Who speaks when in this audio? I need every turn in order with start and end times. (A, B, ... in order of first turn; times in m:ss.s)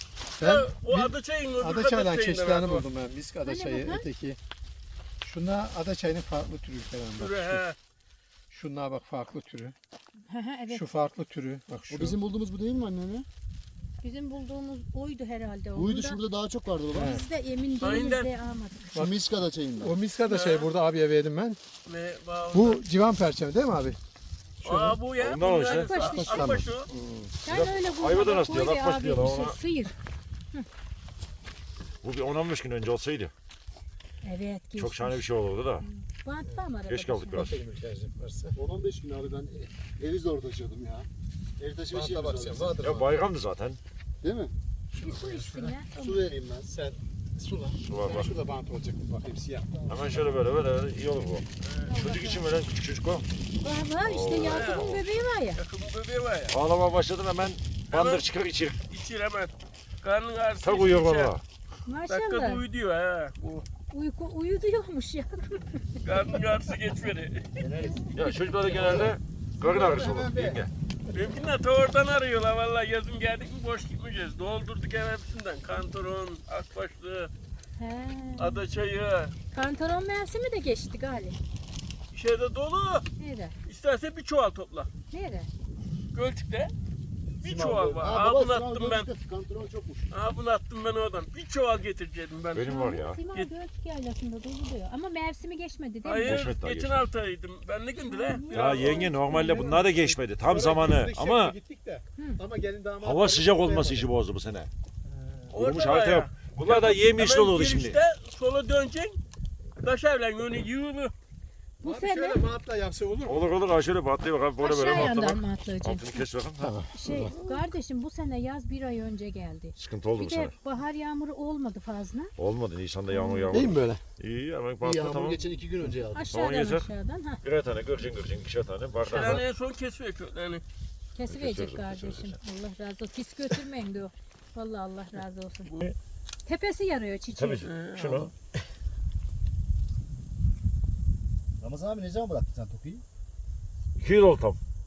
0:00.4-0:02.8 A
0:00.4-0:04.4 B
0:03.4-0:04.1 C
0:05.2-0:07.6 B
0:07.2-0:07.8 A
0:08.5-0:09.7 B
0:10.3-0:10.8 C
0:10.7-0:12.2 B
0:11.9-0:13.3 D
0:14.0-0:16.2 C
0:15.8-0:17.2 D
0:16.9-0:17.2 B
0:16.9-0:18.9 C
0:17.8-0:18.3 A
0:18.9-0:19.9 D
0:19.8-0:21.6 B
0:20.2-0:20.7 A
0:21.8-0:22.8 A
0:22.5-0:24.0 B
0:24.6-0:25.0 B
0:24.6-0:26.9 A
0:25.2-0:25.9 E
0:25.6-0:26.6 C
0:25.9-0:27.3 B
0:27.4-0:29.9 C
0:27.4-0:29.6 E
0:32.0-0:33.3 E
0:34.2-0:35.2 C
0:34.8-0:35.8 E
0:35.8-0:37.5 C
0:36.9-0:37.5 E
0:37.3-0:38.5 B
0:38.5-0:41.1 D
0:41.6-0:42.8 D
0:41.9-0:43.1 B
0:42.8-0:43.8 E
0:44.2-0:44.5 D
0:44.9-0:45.7 B
0:45.0-0:46.3 C
0:45.9-0:46.7 D
0:46.7-0:49.7 B
0:47.8-0:48.3 E
0:49.7-0:50.3 D
0:49.9-0:53.3 E
0:51.6-0:52.0 A
0:51.8-0:52.4 C
0:53.6-0:55.6 C
0:54.0-0:55.2 E
0:54.3-0:55.0 A
0:55.5-0:56.6 A
0:56.5-0:58.8 E
0:57.9-0:58.2 A
0:58.9-1:01.3 A
1:00.6-1:01.4 E
1:01.8-1:02.6 C
1:02.1-1:03.6 A
1:03.9-1:06.2 C
1:06.0-1:07.6 A
1:07.6-1:08.1 D
1:07.8-1:09.1 C
1:08.1-1:10.7 E
1:08.6-1:09.1 D
1:09.6-1:10.6 B
1:11.1-1:17.3 A
1:17.8-1:18.6 C
1:18.4-1:19.3 A
1:19.5-1:21.4 C
1:22.1-1:23.0 A
1:23.2-1:23.6 C
1:23.6-1:24.9 A
1:25.1-1:25.5 C
1:26.1-1:26.7 A
1:27.4-1:30.1 D
1:27.4-1:29.1 A
1:30.1-1:32.7 A
1:32.5-1:33.2 E
1:32.6-1:36.5 C
1:36.0-1:39.1 A
1:36.2-1:37.0 E
1:38.1-1:39.8 C
1:38.5-1:41.6 E
1:39.3-1:44.1 B
1:43.0-1:44.7 E
1:45.0-1:45.6 B
1:45.5-1:48.0 E
1:45.5-1:49.2 A
1:49.8-1:51.1 A
1:51.8-1:52.4 C
1:51.8-1:53.4 B
1:53.2-1:56.7 E
1:54.6-1:56.2 C
1:56.6-1:57.6 B
1:56.9-2:02.3 C
1:59.8-2:00.5 E
2:02.4-2:05.4 E
2:03.1-2:03.5 C
2:03.5-2:04.0 B
2:04.8-2:06.3 D
2:06.1-2:07.4 C
2:06.3-2:06.9 E
2:07.4-2:09.4 E
2:09.0-2:10.6 A
2:11.1-2:15.8 C
2:11.3-2:12.3 E
2:16.4-2:17.7 C
2:17.3-2:18.3 E
2:17.6-2:18.3 A
2:21.6-2:23.0 D
2:24.0-2:24.6 E